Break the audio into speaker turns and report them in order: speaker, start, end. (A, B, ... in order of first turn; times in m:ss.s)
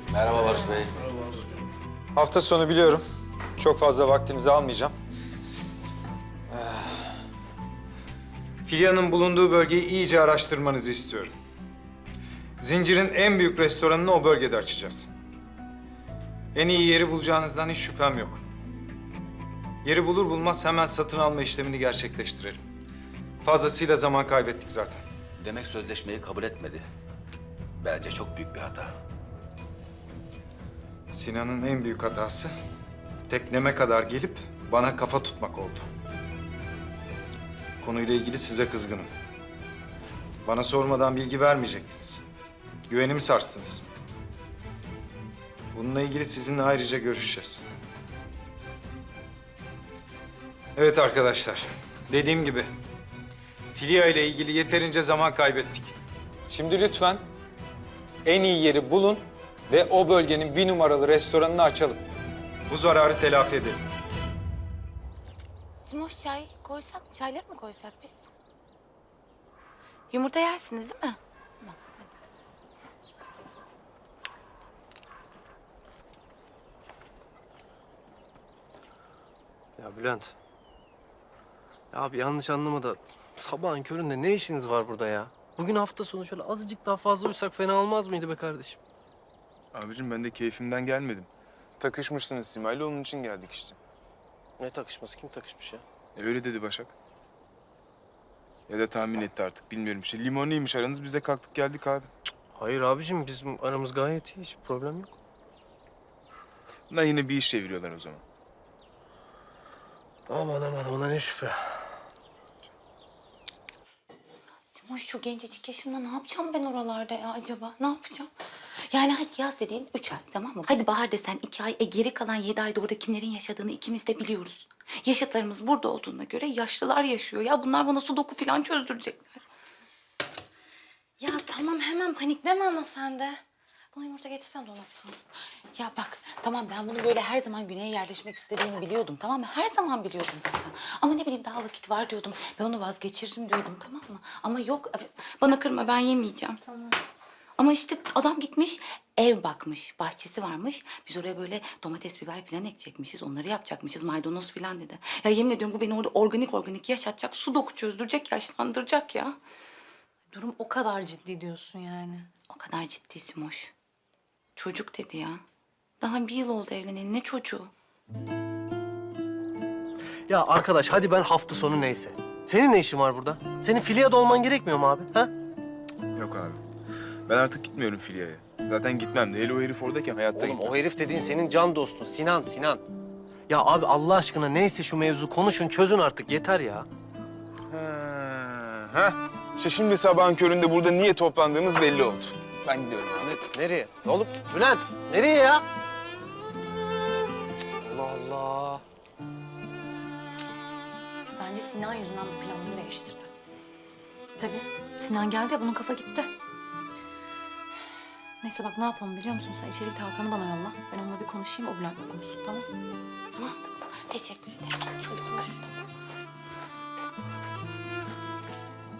0:00.1-0:01.3 A
0:02.1-0:03.0 B
0:03.6-0:04.9 B
0:06.5-0:07.1 B
0:08.6-0:11.3 B
0:12.6-0:15.1 B
0:16.5-0:18.4 B
0:19.8-0:22.6 B
0:23.4-0:25.0 B
0:25.4-0:26.9 A
0:27.8-0:28.9 A
0:31.1-0:32.5 B
0:33.3-0:35.8 B
0:37.8-0:39.1 B
0:40.4-0:42.2 B
0:42.9-0:43.8 B
0:45.7-0:47.6 B
0:50.8-0:52.7 B
0:53.7-0:55.9 B
0:56.5-0:57.2 B
0:58.2-1:02.0 B
1:02.7-1:03.8 B
1:05.7-1:08.3 C
1:10.1-1:12.0 C
1:19.8-1:20.3 D
1:21.9-1:28.8 D
1:29.7-1:31.3 E
1:31.8-1:33.8 E
1:34.6-1:35.8 D
1:36.1-1:36.9 E
1:38.7-1:42.1 E
1:42.6-1:45.1 D
1:46.9-1:48.2 E
1:50.3-1:51.6 D
1:54.7-1:58.3 C
1:58.9-2:09.4 C
2:11.2-2:13.4 F
2:13.9-2:15.2 F
2:15.8-2:26.6 C
2:27.6-2:39.4 C
2:40.3-2:42.3 F
2:42.5-2:43.7 C
2:44.6-2:45.4 C
2:46.0-2:47.7 C
2:50.3-2:55.3 D
2:56.2-2:56.6 E
2:57.3-3:00.8 E
3:00.3-3:02.8 D
3:03.5-3:06.9 D
3:07.7-3:13.2 E
3:13.2-3:15.6 D
3:17.8-3:18.8 D
3:21.3-3:23.3 F
3:24.4-3:26.3 F
3:28.4-3:32.6 F
3:33.4-3:35.7 C